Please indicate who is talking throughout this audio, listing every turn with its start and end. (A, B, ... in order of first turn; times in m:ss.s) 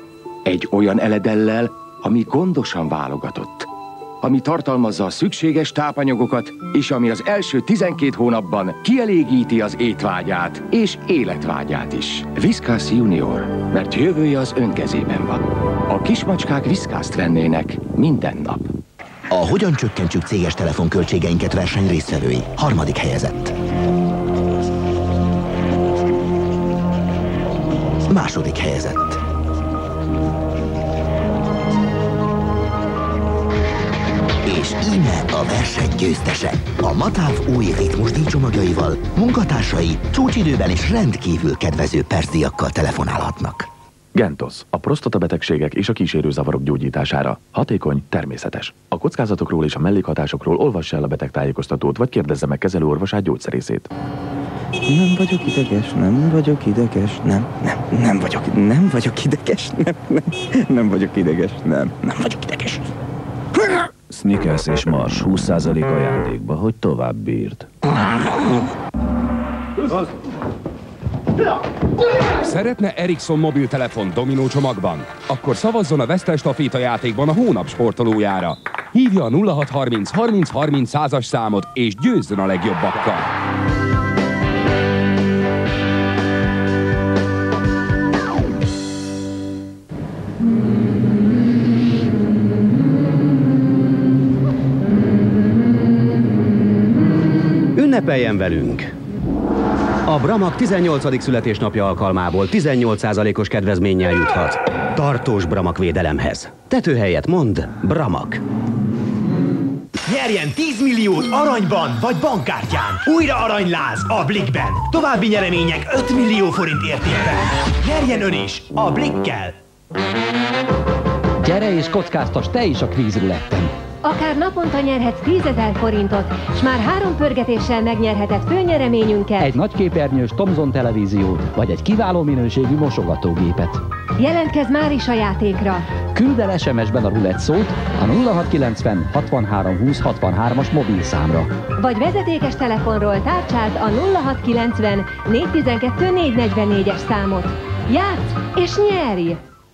0:00.5-0:03.7 A
0:04.2-0:18.7 A
0:19.3-0:23.6 B
0:28.1-0:29.2 B
0:34.5-0:43.7 B
0:44.2-0:53.9 C
0:54.9-1:02.8 D
1:04.1-1:07.6 E
1:12.4-1:23.3 F
1:37.8-1:38.9 G
1:40.1-1:48.4 G
1:50.1-1:59.6 H
2:01.4-2:03.7 I
2:04.0-2:09.6 J
2:09.4-2:13.8 I
2:14.2-2:15.9 J
2:16.2-2:21.5 I
2:21.8-2:29.4 J